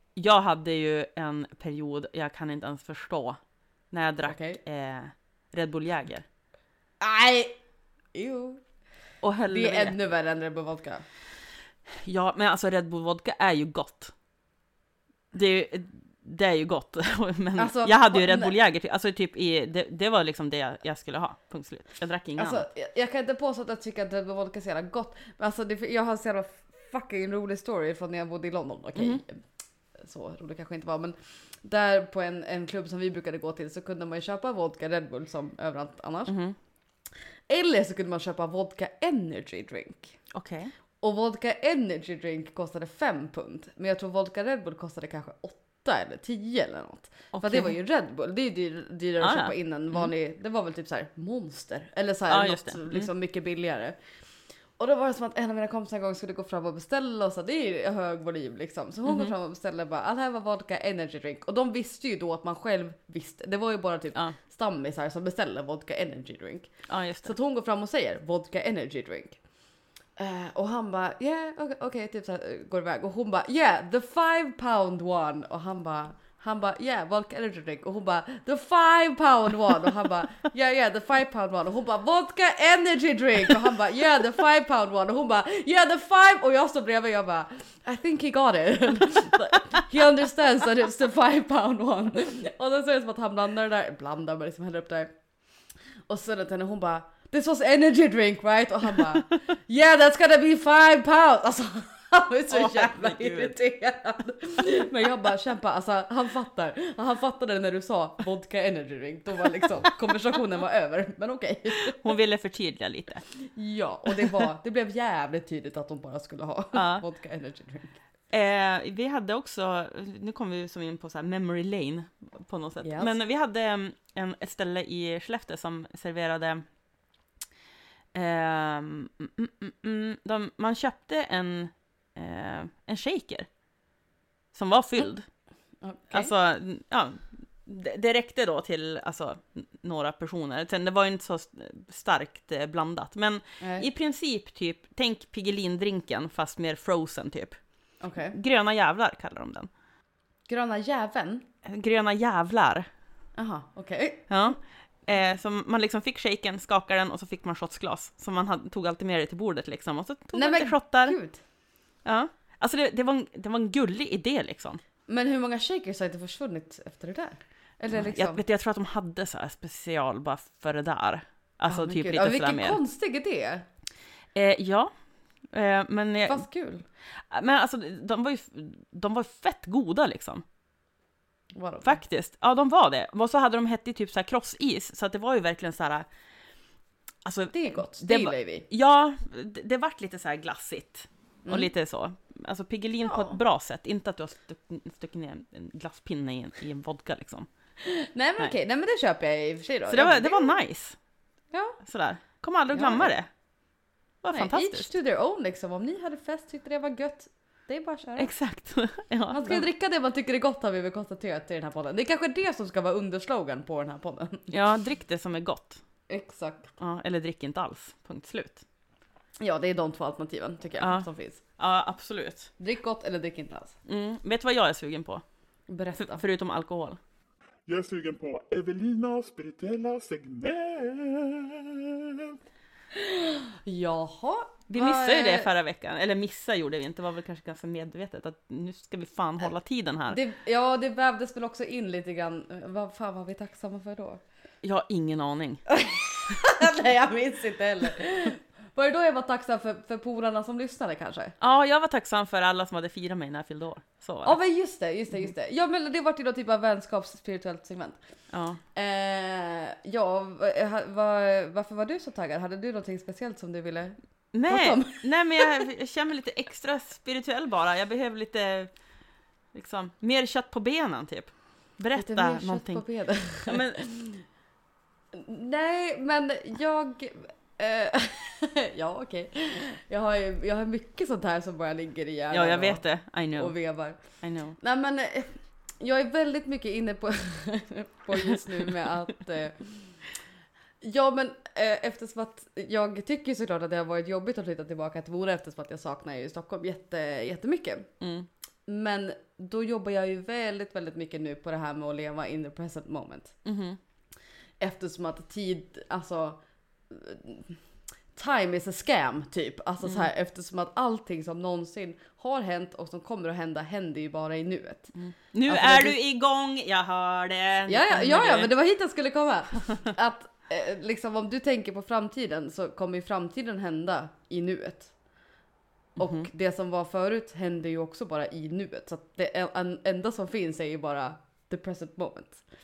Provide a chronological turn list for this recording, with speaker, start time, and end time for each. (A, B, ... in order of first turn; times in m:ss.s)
0:00.2-0:03.4 A
0:03.9-0:06.3 A
0:04.2-0:04.6 B
0:07.0-0:07.6 B
0:08.1-0:08.6 B
0:09.2-0:10.0 A
0:09.5-0:11.0 B
0:11.9-0:14.1 A
0:15.3-0:22.7 A
0:17.6-0:18.5 B
0:22.4-0:29.4 B
0:29.0-0:29.2 A
0:30.0-0:36.4 B
0:36.3-0:36.6 A
0:37.5-0:40.2 B
0:40.3-0:40.7 A
0:41.0-0:54.0 B
0:47.3-0:47.8 A
0:49.2-0:50.1 A
0:52.3-0:53.1 A
0:54.8-1:09.4 B
0:59.0-0:59.3 A
1:06.9-1:07.3 A
1:10.2-1:35.2 B
1:29.4-1:29.8 A
1:36.1-1:52.0 B
1:42.5-1:43.6 A
1:51.9-1:53.3 A
1:53.5-1:58.0 B
1:56.7-1:57.0 A
1:58.3-2:06.6 A
2:02.8-2:03.2 B
2:08.1-2:13.5 A
2:14.5-2:15.3 A
2:15.8-2:16.3 B
2:16.1-2:27.6 A
2:23.6-2:23.9 B
2:28.0-2:28.4 B
2:28.3-2:29.7 A
2:30.5-2:31.4 B
2:31.6-2:32.9 A
2:33.4-2:34.3 B
2:34.3-2:41.2 A
2:40.3-2:41.4 B
2:42.0-2:44.8 A
2:45.1-2:48.4 B
2:47.9-2:52.8 A
2:51.7-2:53.6 B
2:54.3-2:54.9 A
2:55.4-2:56.5 A
2:56.3-2:56.8 B
2:57.3-3:00.4 A
3:01.6-3:02.0 B
3:01.8-3:06.1 A
3:07.2-3:17.5 A
3:07.5-3:08.6 B
3:11.4-3:11.7 B
3:13.0-3:13.4 B
3:18.1-3:20.5 B
3:19.9-3:21.0 A
3:21.5-3:21.8 B
3:21.8-3:23.3 A
3:22.7-3:23.2 B
3:24.2-3:24.9 A
3:24.3-3:28.3 B
3:28.2-3:29.7 A
3:29.3-3:34.5 B
3:34.5-3:35.8 A
3:36.1-3:36.7 B
3:36.8-3:38.6 A
3:39.4-3:41.4 B
3:40.8-3:42.5 A
3:42.6-3:43.8 B
3:43.9-3:45.2 A
3:45.7-3:46.2 B
3:46.0-3:47.0 A
3:47.7-3:52.4 C
3:53.0-3:55.5 B
3:54.7-4:00.2 A
4:00.1-4:04.2 B
4:04.6-4:05.6 A
4:05.7-4:11.4 B
4:11.4-4:14.4 A
4:14.2-4:18.0 B
4:18.3-4:18.6 A
4:18.7-4:25.6 B
4:24.3-4:28.7 A
4:29.5-4:33.8 A
4:32.0-4:34.3 B
4:35.2-4:50.0 B
4:42.3-4:44.6 A
4:50.8-4:58.0 B
4:58.0-4:58.3 A
4:58.7-5:03.4 B
5:03.4-5:03.8 A
5:04.6-5:07.6 B
5:08.1-5:16.0 B
5:15.0-5:18.5 A
5:17.7-5:24.9 B
5:26.0-5:26.3 A
5:26.0-5:32.4 B